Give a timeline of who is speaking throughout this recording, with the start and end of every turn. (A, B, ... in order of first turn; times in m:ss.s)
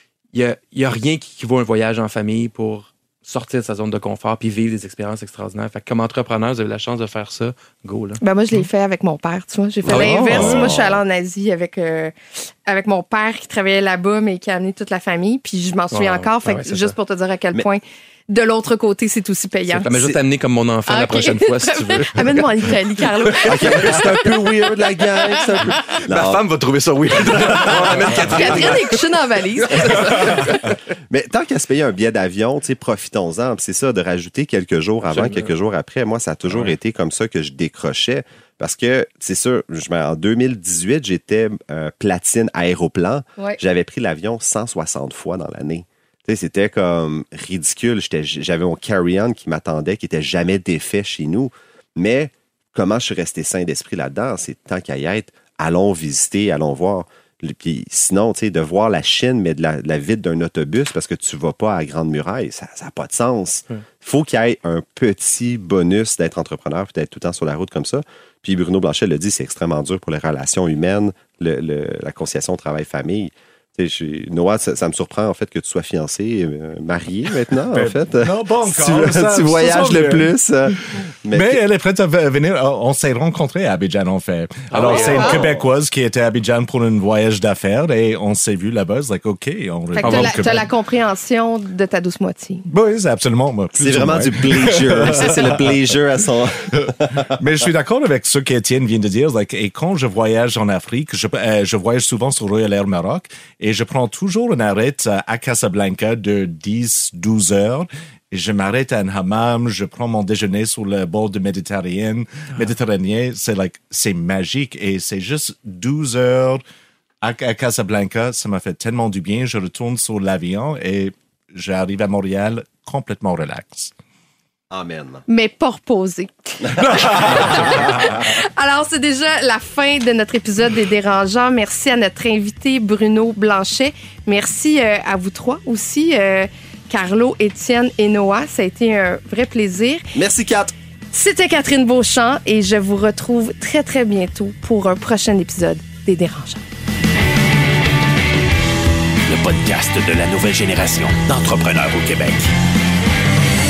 0:00.3-0:08.7 A
0:08.2-0:12.1 B
0:09.8-0:10.8 A
0:09.9-0:11.0 C
0:12.7-0:19.9 B
0:15.9-0:17.0 A
0:19.7-0:30.7 A
0:19.9-0:20.2 C
0:20.9-0:24.3 B
0:23.5-0:26.4 C
0:25.2-0:25.5 B
0:27.2-0:28.5 C
0:28.3-0:30.4 B
0:31.1-1:21.6 C
0:35.0-0:35.5 A
0:36.5-0:36.7 D
1:17.7-1:20.3 D
1:21.3-1:30.7 D
1:24.7-1:25.5 A
1:24.9-1:25.4 B
1:25.1-1:25.7 C
1:30.0-1:32.6 B
1:30.0-1:30.4 A
1:32.7-1:35.9 D
1:33.8-1:37.3 C
1:36.7-1:56.6 D
1:57.2-2:03.9 D
2:04.7-2:05.2 C
2:05.3-2:20.0 B
2:06.7-2:08.1 C
2:06.8-2:08.0 D
2:20.1-2:20.7 C
2:21.1-2:26.6 B
2:29.2-2:32.5 E